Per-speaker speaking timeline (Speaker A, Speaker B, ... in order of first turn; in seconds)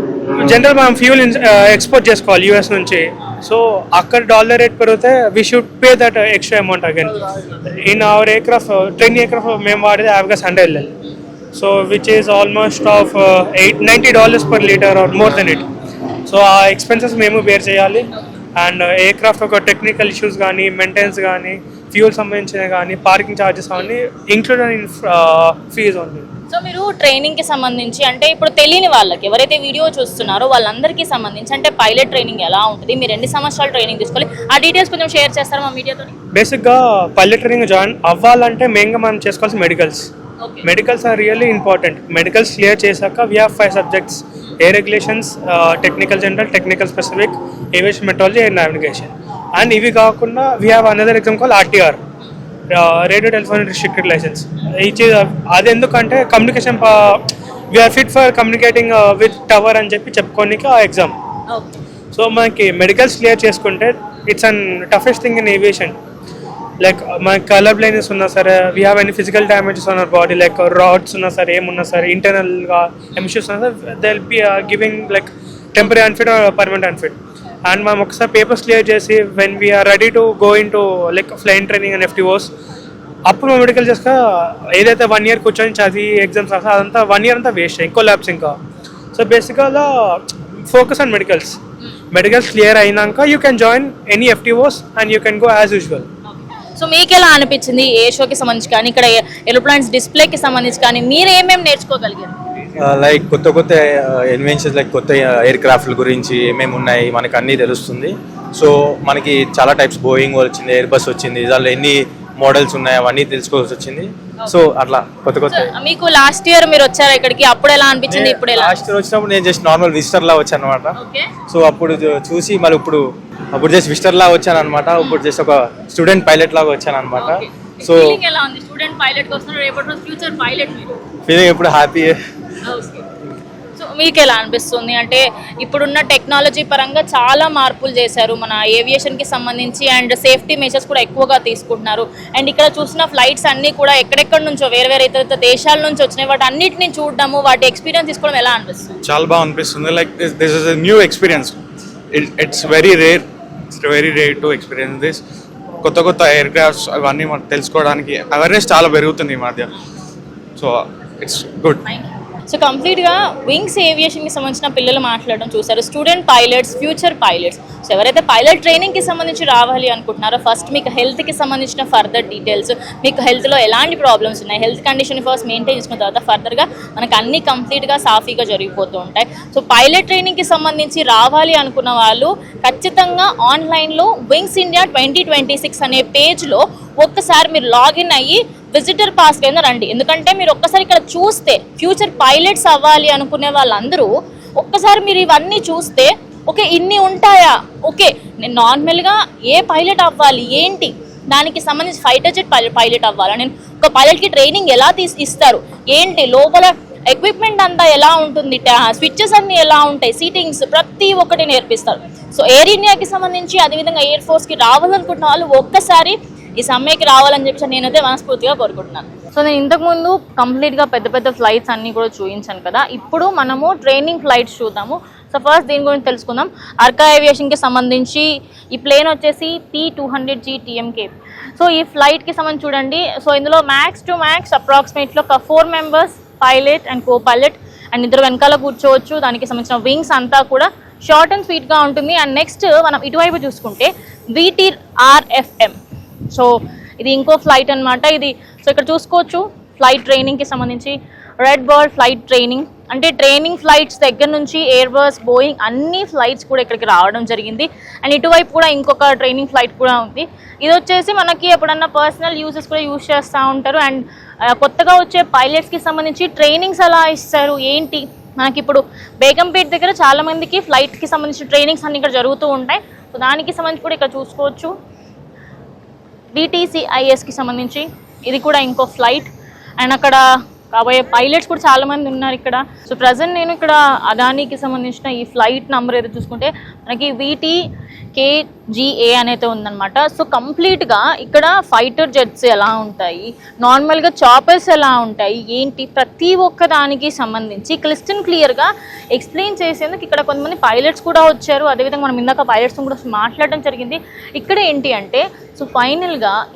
Speaker A: 0.3-7.2, 7.7-10.9, 11.5-15.7, 16.3-26.3, 36.3-40.1, 40.6-52.0, 52.7-61.1, 62.1-66.0, 66.8-82.5, 83.3-88.6, 89.1-91.6, 92.1-96.1
Speaker B: 26.5-36.1, 40.4-40.7, 61.5-61.8, 96.3-102.3, 115.5-118.8, 121.0-121.3, 127.2-131.0, 132.6-133.1, 133.7-148.9, 161.9-245.8, 246.3-274.7, 276.3-287.6, 288.1-306.4
Speaker C: 102.8-115.7, 118.1-121.0, 121.5-128.2, 131.3-132.2
Speaker D: 149.0-151.6, 152.1-155.2, 155.8-159.7, 160.6-161.8